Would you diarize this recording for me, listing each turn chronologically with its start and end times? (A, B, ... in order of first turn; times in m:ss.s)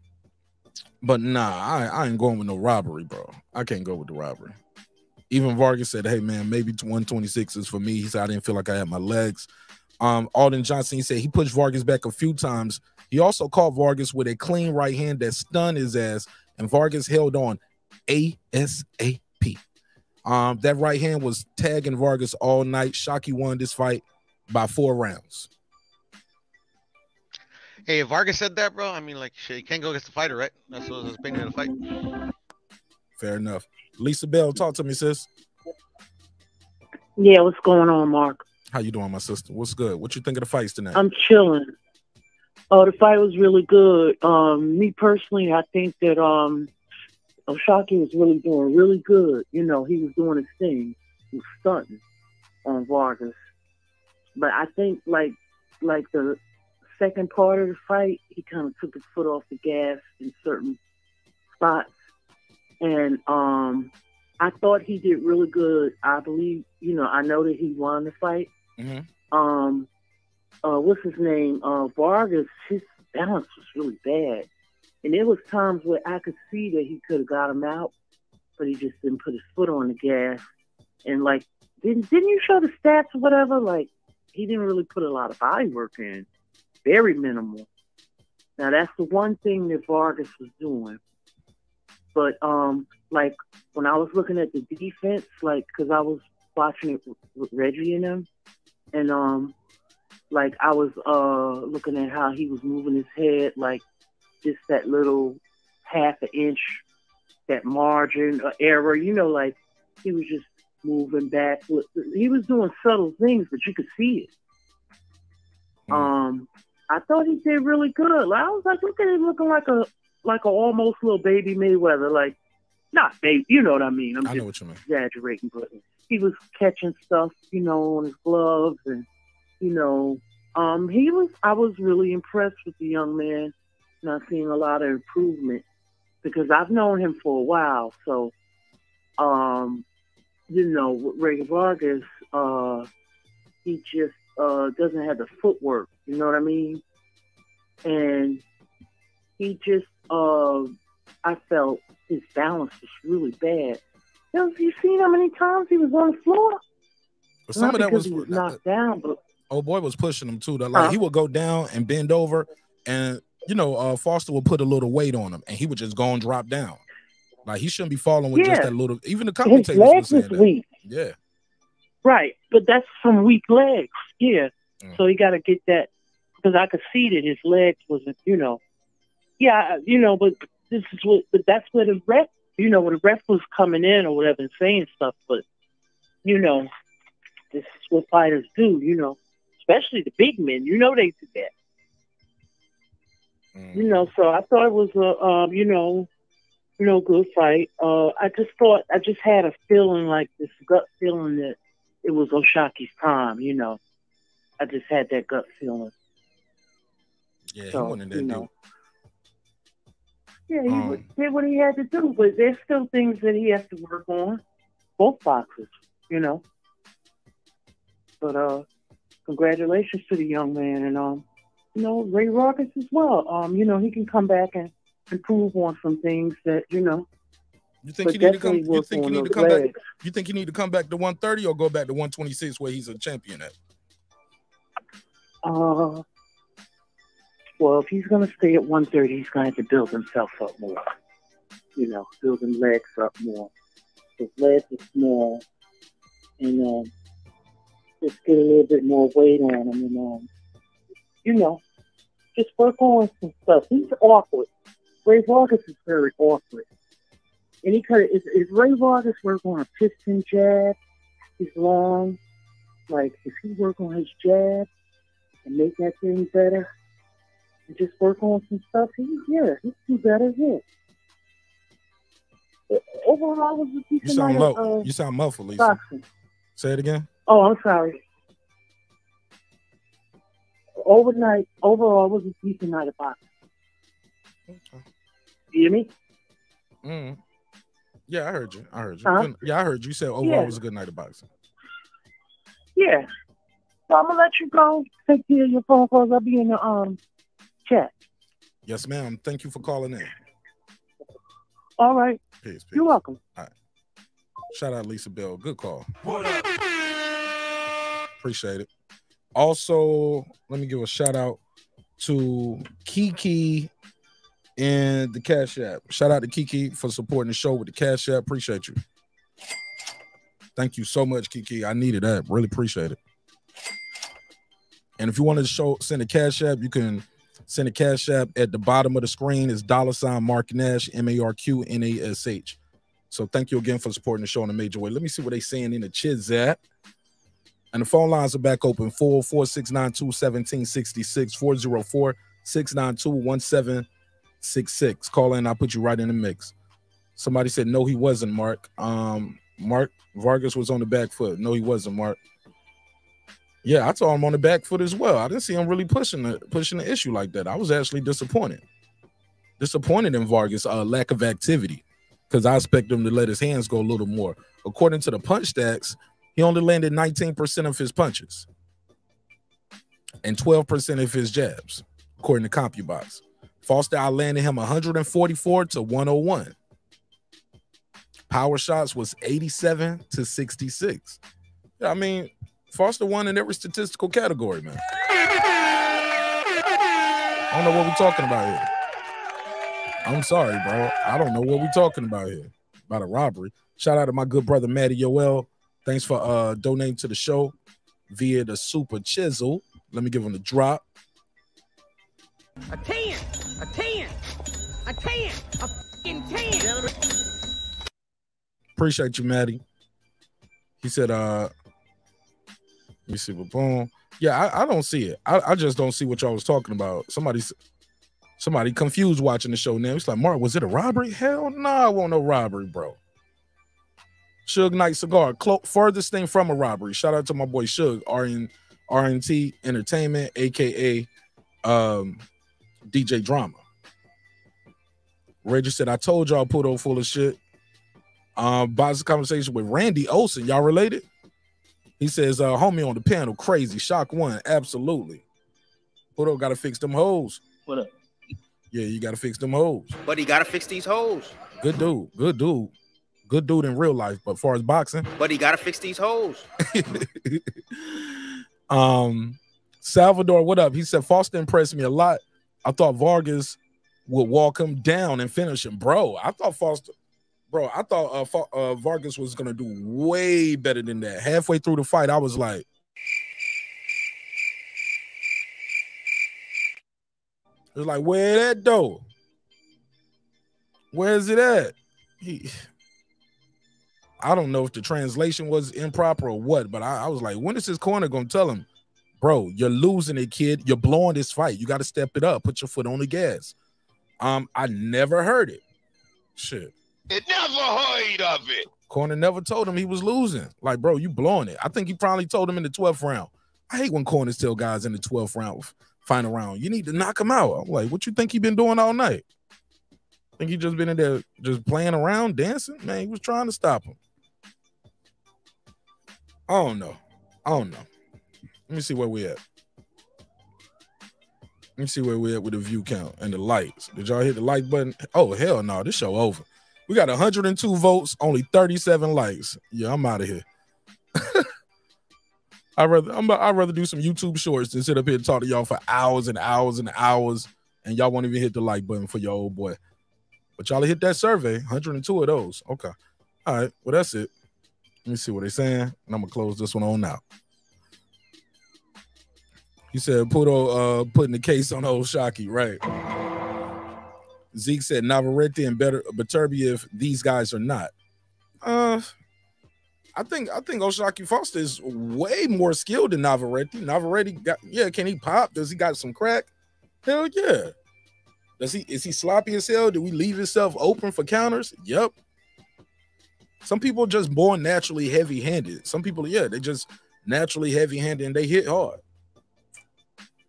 0:01.0-0:04.6 A
0:05.3-0:09.5 A
0:10.0-0:19.6 A
0:20.2-0:25.5 A
0:27.9-0:31.7 B
0:33.2-0:35.3 A
0:37.2-0:38.4 C
0:38.7-0:41.0 A
0:40.9-0:41.7 C
0:42.7-0:46.7 C
0:47.5-0:52.0 C
0:52.6-0:53.4 C
0:54.4-0:56.4 C
0:56.9-1:00.8 C
1:01.5-1:01.9 C
1:02.8-1:08.5 C
1:08.8-1:09.1 A
1:09.3-1:09.9 C
1:10.6-1:14.5 C
1:15.0-1:17.9 C
1:18.6-1:20.4 C
1:21.0-1:26.3 C
1:26.8-1:27.7 C
1:28.6-1:31.0 C
1:32.1-1:38.3 C
1:38.9-1:39.5 C
1:40.3-1:43.8 C
1:44.4-1:46.8 C
1:47.5-1:54.3 C
1:55.9-2:02.4 C
2:02.9-2:09.0 C
2:04.2-2:04.8 A
2:09.6-2:15.6 C
2:16.2-2:18.3 C
2:19.2-2:19.8 C
2:20.5-2:22.9 C
2:23.6-2:26.8 C
2:27.8-2:28.4 C
2:29.4-2:33.8 C
2:34.3-2:36.6 C
2:37.5-2:38.6 A
2:37.6-2:39.2 C
2:39.5-2:46.8 A
2:47.4-2:51.1 A
2:48.3-2:48.7 C
2:49.4-2:50.6 C
2:52.0-2:58.6 C
2:59.4-3:05.4 C
3:06.2-3:06.7 C
3:07.5-3:11.5 C
3:13.5-3:14.1 A
3:13.7-3:16.1 C
3:16.8-3:23.8 C
3:24.6-3:25.9 C
3:27.5-3:28.5 A
3:27.7-3:28.5 C
3:30.5-3:34.4 C
3:30.7-3:31.1 A
3:35.0-3:36.4 C
3:38.2-3:38.6 C
3:39.2-3:47.0 C
3:47.8-3:53.5 A
3:48.0-3:49.8 C
3:55.4-3:56.0 C
3:57.6-4:00.8 C
4:01.8-4:03.5 C
4:04.2-4:05.4 C
4:06.4-4:06.9 C
4:08.0-4:10.3 C
4:11.2-4:11.6 C
4:12.3-4:14.5 C
4:15.0-4:16.6 C
4:17.6-4:20.8 C
4:21.4-4:22.2 C
4:22.9-4:24.7 C
4:25.4-4:26.7 C
4:27.7-4:30.6 C
4:32.7-4:34.9 C
4:34.0-4:35.8 A
4:35.6-4:36.0 C
4:36.6-4:37.1 A
4:37.3-4:38.0 C
4:40.8-4:43.2 C
4:44.5-4:44.8 A
4:45.5-4:45.9 C
4:46.8-4:47.2 A
4:48.1-4:51.3 A
4:49.0-4:49.3 C
4:50.2-4:50.6 C
4:52.8-4:53.1 C
4:53.9-4:57.0 C
4:57.6-4:57.9 C
4:58.6-5:00.1 A
5:01.8-5:02.2 C
5:02.4-5:03.5 A
5:02.7-5:03.2 C
5:04.5-5:05.9 A
5:06.0-5:06.5 D
5:08.2-5:08.7 A
5:09.3-5:11.4 A
5:12.0-5:13.7 A
5:14.6-5:18.8 A
5:20.6-5:23.0 A
5:25.0-5:32.6 A
5:33.1-5:36.6 A
5:37.7-5:43.8 A
5:44.4-5:46.5 A
5:47.2-5:52.2 A
5:53.6-5:58.6 A
5:59.6-6:08.5 A
6:10.2-6:16.6 A
6:18.3-6:21.2 A
6:21.8-6:24.8 A
6:27.5-6:28.7 A
6:30.0-6:37.5 A
6:38.1-6:40.8 A
6:42.7-6:44.2 E
6:44.8-6:46.7 E
6:48.8-6:49.6 A
6:50.8-6:51.5 A
6:53.1-6:57.5 A
6:58.4-7:03.0 A
7:04.4-7:11.1 A
7:11.6-7:12.2 A
7:12.9-7:13.6 A
7:15.4-7:17.4 A
7:18.4-7:21.0 A
7:22.0-7:25.2 A
7:26.2-7:27.4 A
7:28.7-7:30.0 A
7:30.0-7:31.3 F
7:31.6-7:32.7 A
7:33.3-7:35.1 A
7:35.2-7:36.4 F
7:36.7-7:38.1 A
7:38.7-7:46.9 A
7:47.5-7:52.6 A
7:57.7-7:59.0 A
8:00.9-8:02.6 A
8:04.2-8:08.6 A
8:09.2-8:13.5 A
8:14.2-8:15.6 A
8:16.4-8:16.7 A
8:17.1-8:18.7 D
8:18.9-8:29.2 A
8:30.4-8:34.0 A
8:36.5-8:37.9 A
8:38.7-8:39.4 A
8:41.8-8:50.4 A
8:51.2-8:51.5 A
8:52.8-8:59.8 A
9:00.6-9:02.9 A
9:03.4-9:04.3 A
9:05.0-9:07.2 A
9:09.9-9:12.8 A
9:14.5-9:17.9 A
9:18.6-9:19.1 A
9:20.2-9:26.5 A
9:27.0-9:27.7 A
9:28.6-9:32.1 A
9:33.6-9:39.0 A